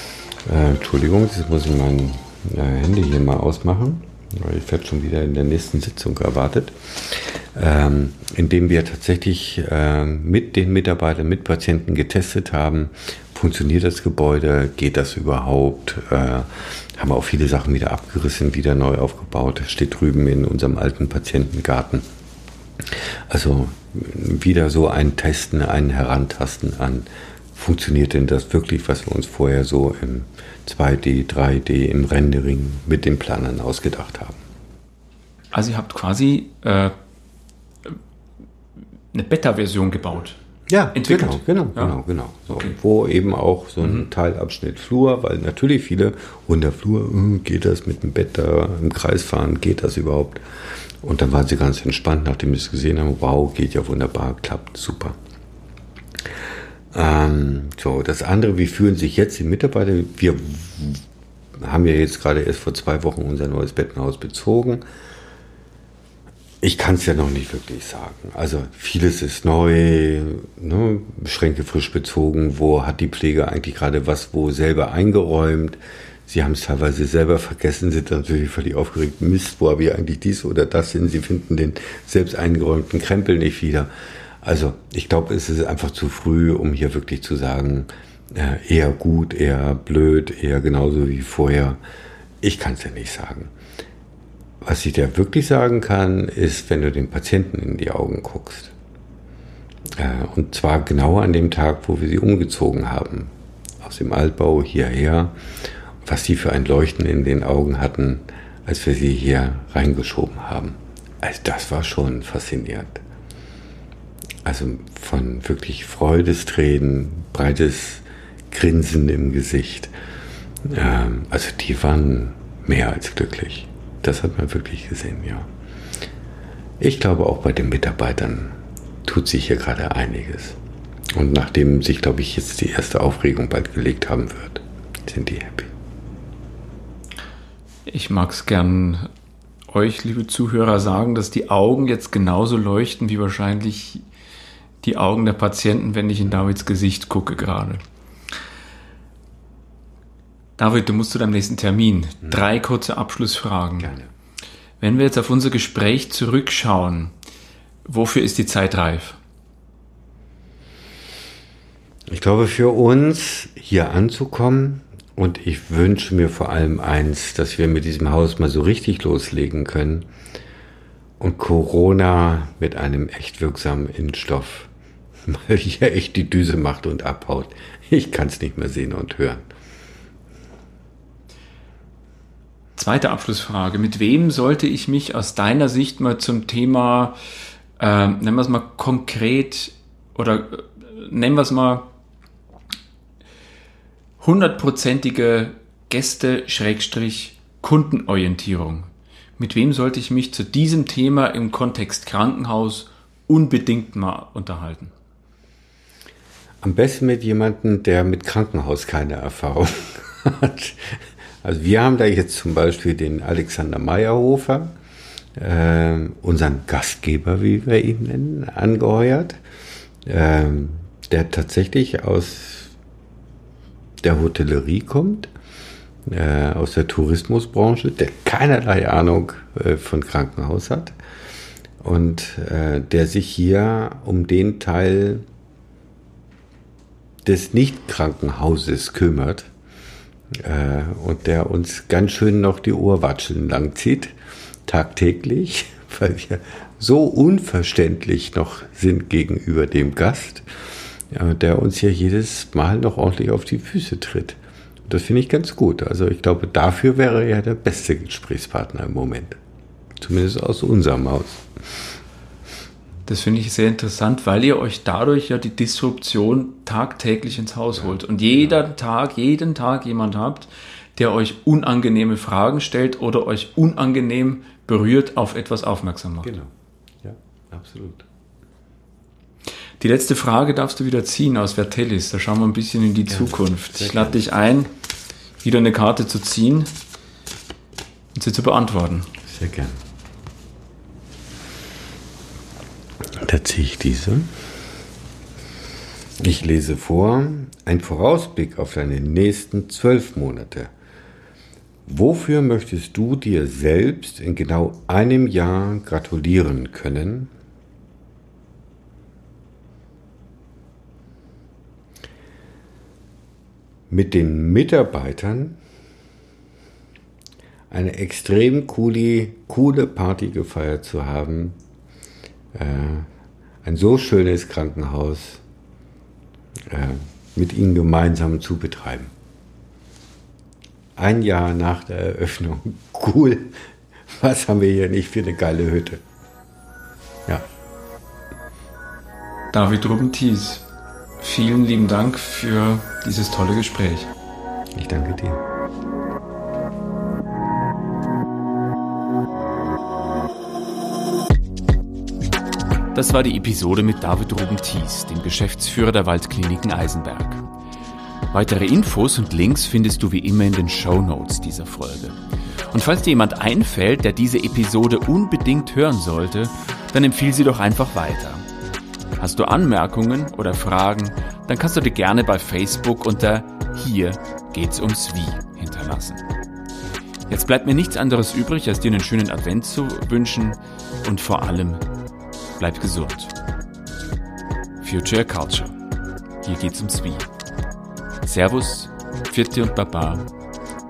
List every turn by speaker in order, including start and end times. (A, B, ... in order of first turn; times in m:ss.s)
0:00.5-0:22.0 A
0:22.9-0:34.4 A
0:35.5-0:37.0 B
0:39.1-0:40.4 B
0:40.7-0:50.4 A
0:40.9-0:42.0 B
0:51.0-0:55.2 A
0:56.9-1:01.0 A
1:01.6-1:04.8 A
1:06.6-1:23.9 A
1:24.4-1:31.8 A
1:32.4-1:33.5 A
1:34.6-1:38.8 A
1:40.0-1:45.4 A
1:46.0-1:53.0 A
1:54.4-1:59.9 A
2:00.6-2:05.5 A
2:06.8-2:10.6 A
2:11.2-2:15.7 A
2:17.9-2:19.1 B
2:19.7-2:24.0 B
2:24.8-2:27.8 B
2:30.6-2:33.9 B
2:33.8-2:34.1 A
2:34.8-2:37.1 B
2:37.8-2:39.2 B
2:42.1-2:50.1 A
2:51.2-2:54.7 A
2:55.3-2:59.4 A
3:02.8-3:07.2 B
3:07.8-3:11.9 B
3:14.2-3:24.9 B
3:26.6-3:34.8 A
3:35.4-3:39.4 A
3:40.1-3:42.7 A
3:44.0-3:45.3 A
3:46.1-3:51.0 A
3:51.8-3:55.2 A
3:57.2-3:59.5 A
4:00.4-4:04.1 A
4:04.7-4:10.4 A
4:11.1-4:14.4 A
4:14.9-4:19.4 A
4:20.0-4:21.8 A
4:23.1-4:36.3 B
4:27.8-4:28.6 A
4:36.2-4:36.5 A
4:37.0-4:38.1 A
4:39.8-4:44.7 B
4:43.1-4:44.2 A
4:45.4-4:46.7 B
4:48.1-4:49.1 B
4:49.2-4:49.8 A
4:53.1-4:54.3 A
4:56.2-5:00.7 A
5:01.9-5:07.3 A
5:13.9-5:15.6 A
5:17.7-5:21.6 A
5:22.6-5:23.1 A
5:23.6-5:25.4 A
5:26.7-5:29.1 A
5:31.0-5:36.0 A
5:39.5-5:40.7 B
5:41.2-5:44.1 B
5:44.8-5:45.4 A
5:52.9-5:57.5 B
5:58.3-6:08.5 B
6:09.2-6:16.2 B
6:17.3-6:21.8 B
6:22.6-6:23.4 B
6:24.8-6:25.8 B
6:26.4-6:27.3 B
6:28.2-6:30.3 B